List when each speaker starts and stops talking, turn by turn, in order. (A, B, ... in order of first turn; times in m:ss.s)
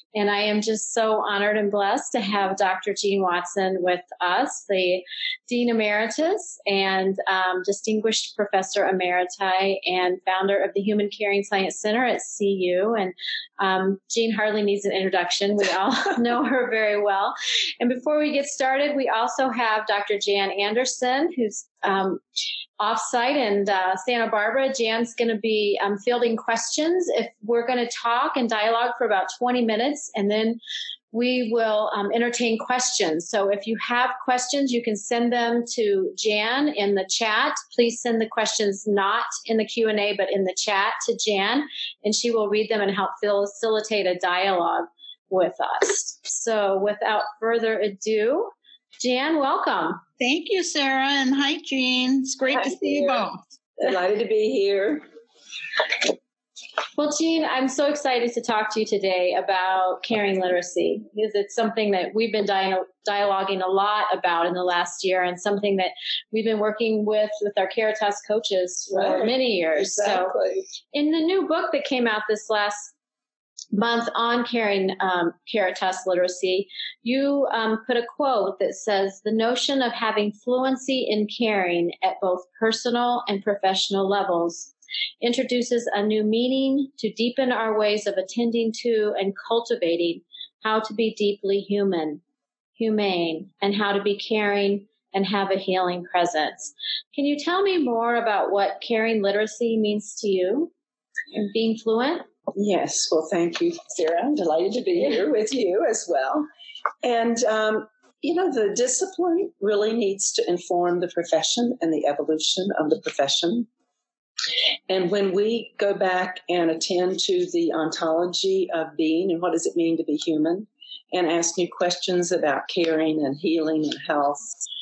0:00.1-0:22.2 A
0:22.8-0:30.6 A
0:31.1-0:50.0 A
0:50.2-0:53.4 B
0:52.5-0:53.2 C
0:53.8-0:55.1 C
0:57.0-1:10.3 A
1:08.9-1:10.6 C
1:10.9-1:12.9 A
1:13.7-1:32.2 A
1:32.8-1:40.7 A
1:41.4-1:42.2 A
1:42.5-1:46.5 C
1:47.0-1:53.7 C
1:54.9-2:04.5 C